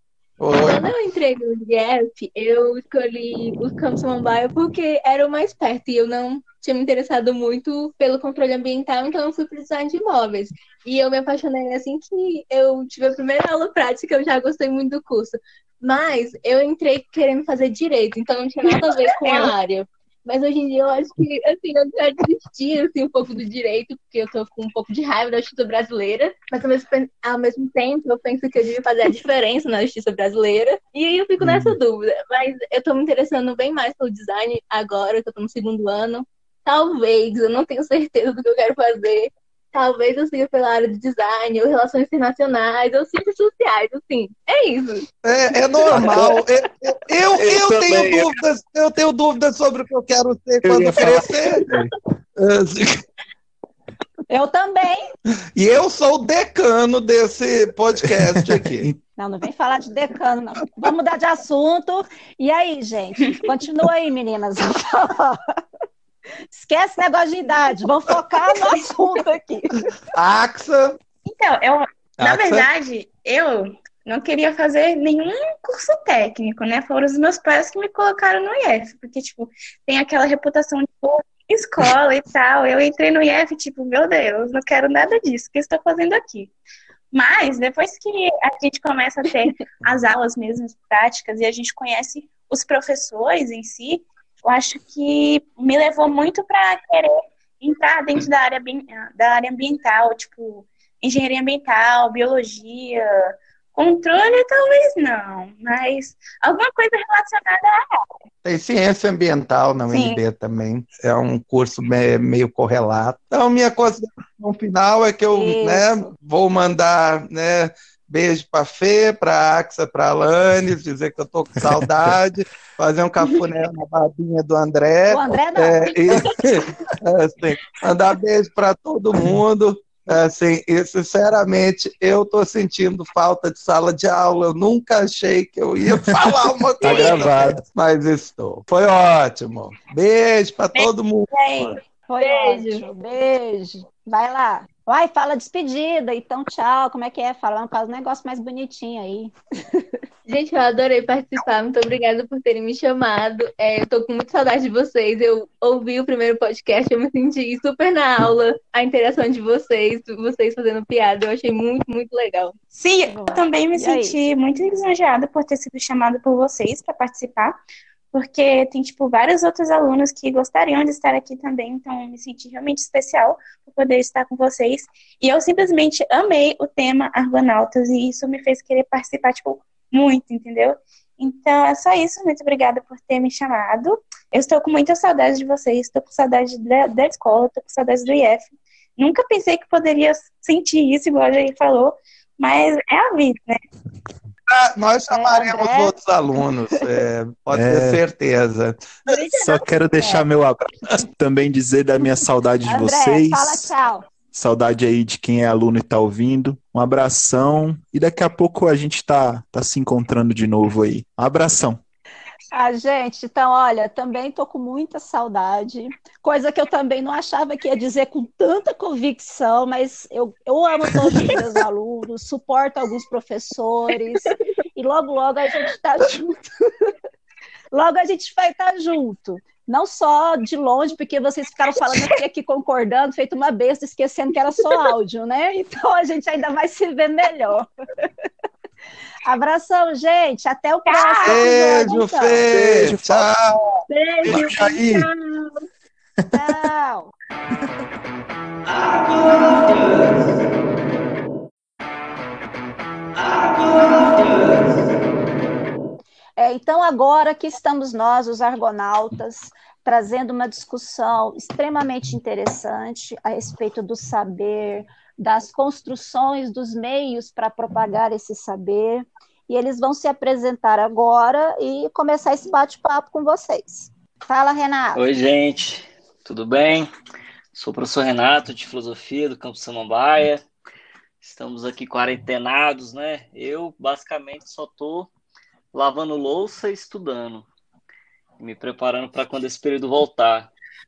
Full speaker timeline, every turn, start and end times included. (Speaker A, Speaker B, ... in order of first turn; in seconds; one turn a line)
Speaker A: 0.4-0.9
Speaker B: 0.5-45.1
Speaker C: 31.4-31.7
Speaker A: 45.2-51.8
Speaker C: 45.9-46.3
Speaker C: 47.4-48.4
Speaker C: 50.6-51.9
Speaker A: 52.4-53.0
Speaker D: 54.3-55.0
Speaker A: 55.5-58.9
Speaker C: 58.0-59.0
Speaker D: 59.2-65.6
Speaker D: 66.5-69.8
Speaker A: 70.1-71.0
Speaker E: 71.2-86.5
Speaker A: 72.2-72.7
Speaker E: 87.1-103.0
Speaker E: 103.7-107.8
Speaker A: 108.4-141.8
Speaker E: 109.9-110.2
Speaker D: 115.3-116.1
Speaker D: 125.1-126.2
Speaker C: 136.8-137.6
Speaker E: 140.7-141.8
Speaker D: 142.1-149.8
Speaker B: 142.2-142.8
Speaker B: 150.2-162.6
Speaker E: 162.7-167.6
Speaker D: 163.0-164.2
Speaker E: 168.1-193.6
Speaker A: 194.5-199.1
Speaker D: 195.1-195.9
Speaker C: 197.5-198.0
Speaker B: 199.1-199.5
Speaker C: 199.3-203.7
Speaker D: 202.7-204.1
Speaker C: 204.3-211.8
Speaker D: 212.5-226.4
Speaker D: 227.7-238.1
Speaker D: 239.2-242.4
Speaker E: 240.9-241.5
Speaker A: 241.2-243.5
Speaker C: 242.5-243.6
Speaker B: 243.9-245.5
Speaker C: 244.2-245.1
Speaker C: 246.3-246.6
Speaker D: 246.3-247.1
Speaker D: 256.4-275.0
Speaker F: 274.9-276.9
Speaker F: 277.5-280.4
Speaker F: 281.2-285.1
Speaker F: 285.7-287.4
Speaker F: 288.4-290.5